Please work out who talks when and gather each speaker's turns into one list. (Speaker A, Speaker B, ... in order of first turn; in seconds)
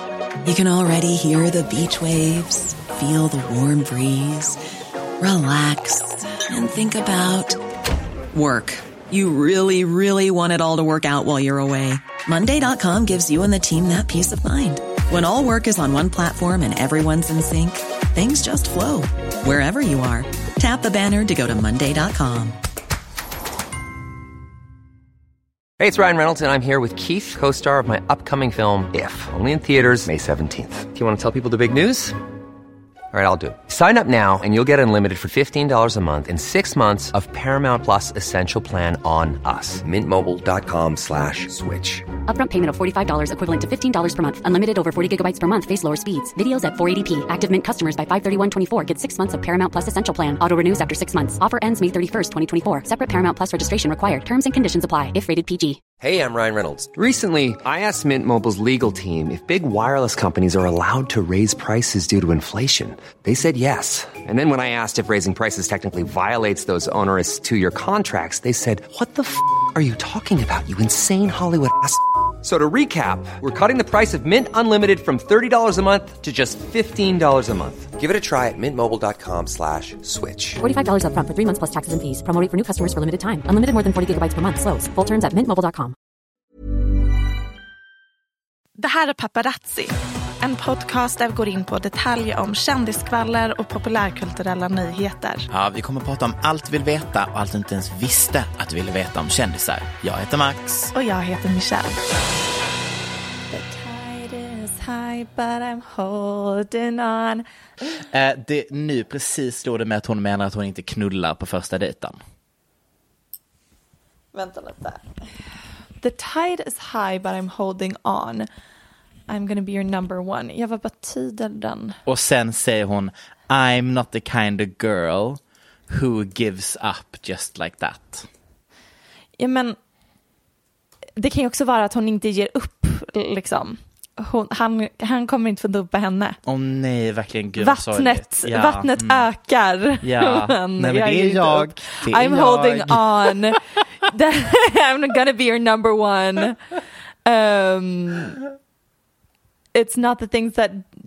Speaker A: 0.4-4.6, 5.2-7.6, 8.3-22.6
Speaker B: 25.8-32.2, 33.1-42.0, 56.0-80.6
Speaker C: 42.3-55.8, 80.6-85.9
Speaker D: 88.8-95.5, 100.9-102.0, 103.5-107.4, 114.3-115.0, 116.0-118.5, 119.3-122.0, 129.4-129.8, 131.2-136.4, 137.6-146.6, 147.2-148.4, 149.7-150.9
Speaker E: 95.5-100.9, 108.1-112.2, 122.0-128.3, 136.4-139.3, 140.0-143.6